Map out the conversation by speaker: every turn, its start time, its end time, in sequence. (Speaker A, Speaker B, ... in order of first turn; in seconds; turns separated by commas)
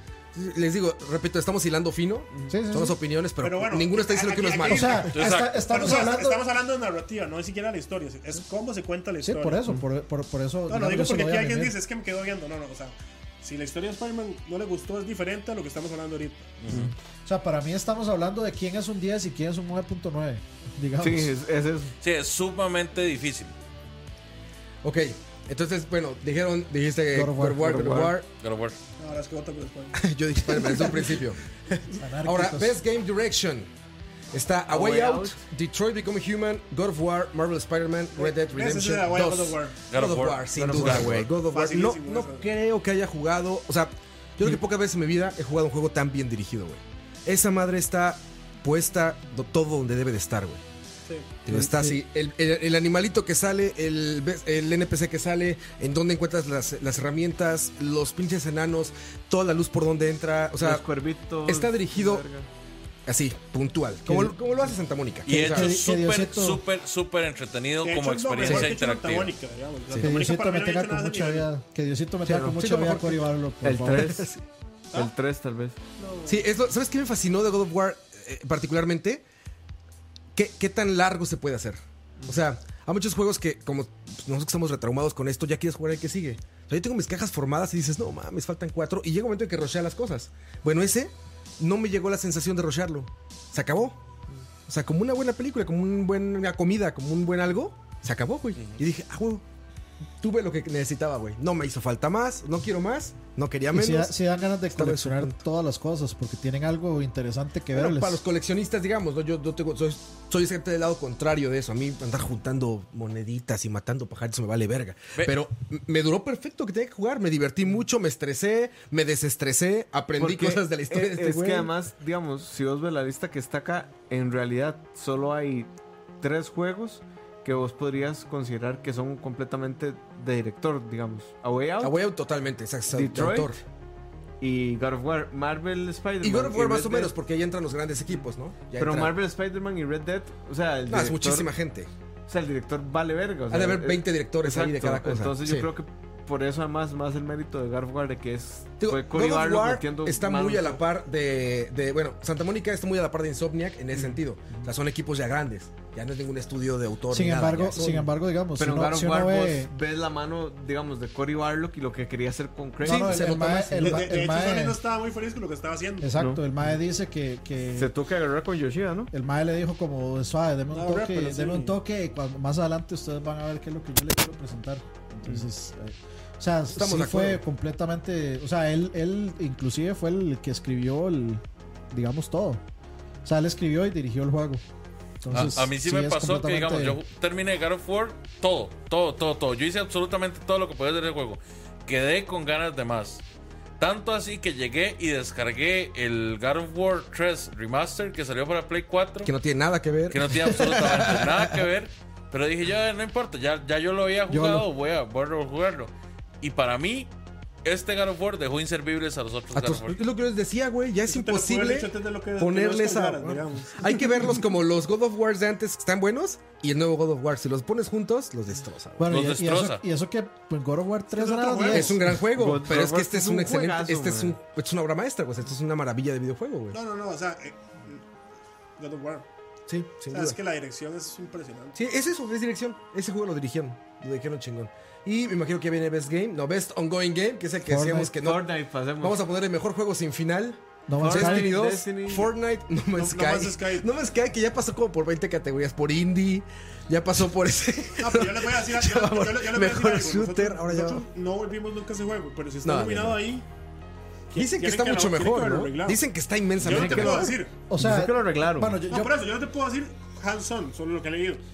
Speaker A: 0.3-5.1, Speaker B: 2.5-3.0, Speaker C: 3.4-9.7, Speaker B: 4.6-6.4, Speaker D: 5.1-5.9, Speaker B: 9.2-11.8, Speaker C: 10.7-16.6, Speaker D: 16.6-16.9, Speaker B: 17.2-21.3, Speaker E: 21.0-21.9, Speaker D: 22.0-23.5, Speaker A: 24.8-28.3, Speaker B: 27.1-28.1, Speaker E: 27.6-28.1, Speaker D: 28.4-28.8, Speaker C: 29.0-30.0, Speaker A: 29.9-31.4, Speaker B: 31.9-32.8, Speaker A: 32.2-33.7, Speaker A: 34.3-50.6, Speaker E: 34.7-35.4, Speaker C: 38.1-39.8, Speaker D: 39.9-41.2, Speaker E: 40.5-41.2, Speaker C: 41.2-42.4, Speaker C: 51.0-51.3, Speaker A: 51.4-60.8, Speaker B: 51.6-51.9, Speaker E: 60.6-62.5, Speaker A: 61.5-62.2, Speaker A: 63.0-65.7, Speaker B: 64.0-64.4, Speaker D: 65.2-69.3, Speaker B: 65.3-66.6, Speaker C: 67.8-71.5, Speaker A: 68.4-68.7, Speaker B: 70.0-74.3, Speaker A: 72.3-73.3, Speaker E: 73.6-74.3, Speaker A: 74.0-74.4, Speaker E: 74.9-75.8, Speaker C: 76.0-76.4, Speaker A: 76.2-79.2, Speaker A: 80.3-94.0, Speaker A: 94.7-99.4, Speaker A: 100.2-104.1, Speaker B: 103.7-108.2, Speaker A: 104.7-105.4, Speaker A: 107.7-121.7, Speaker E: 120.2-132.0, Speaker A: 131.8-133.6, Speaker E: 132.9-133.5, Speaker E: 134.4-137.1, Speaker A: 136.2-139.2, Speaker E: 138.8-141.5, Speaker A: 140.9-141.9, Speaker E: 142.3-150.8, Speaker A: 143.5-145.7, Speaker A: 148.8-158.1, Speaker E: 153.9-154.2, Speaker B: 157.1-159.7, Speaker E: 158.6-163.2, Speaker B: 162.8-164.8, Speaker A: 162.9-164.1, Speaker C: 163.8-166.2, Speaker B: 166.0-167.9, Speaker E: 166.2-166.4, Speaker E: 167.8-169.1, Speaker B: 169.1-182.6, Speaker C: 170.7-171.8, Speaker A: 176.7-177.4, Speaker B: 183.2-184.6, Speaker B: 185.2-187.0, Speaker D: 185.3-193.2, Speaker D: 193.8-199.3, Speaker A: 199.2-201.6, Speaker D: 200.1-207.1, Speaker B: 204.3-204.7, Speaker D: 207.6-210.0, Speaker A: 209.5-219.2, Speaker C: 211.1-214.3, Speaker B: 219.0-222.2, Speaker D: 219.1-219.8, Speaker C: 221.1-222.1, Speaker A: 221.7-226.8, Speaker E: 222.3-224.3, Speaker C: 226.7-228.0, Speaker C: 228.8-229.3, Speaker A: 229.7-230.4, Speaker C: 230.1-231.8, Speaker A: 231.7-251.0, Speaker B: 237.7-238.1, Speaker E: 238.2-239.2, Speaker B: 240.9-241.6, Speaker E: 241.0-242.3, Speaker C: 242.9-243.9, Speaker C: 248.0-253.4, Speaker A: 252.6-253.2, Speaker C: 254.3-256.0, Speaker A: 254.3-257.4, Speaker C: 256.6-257.5, Speaker E: 256.6-258.8, Speaker B: 257.6-259.2, Speaker C: 258.9-261.4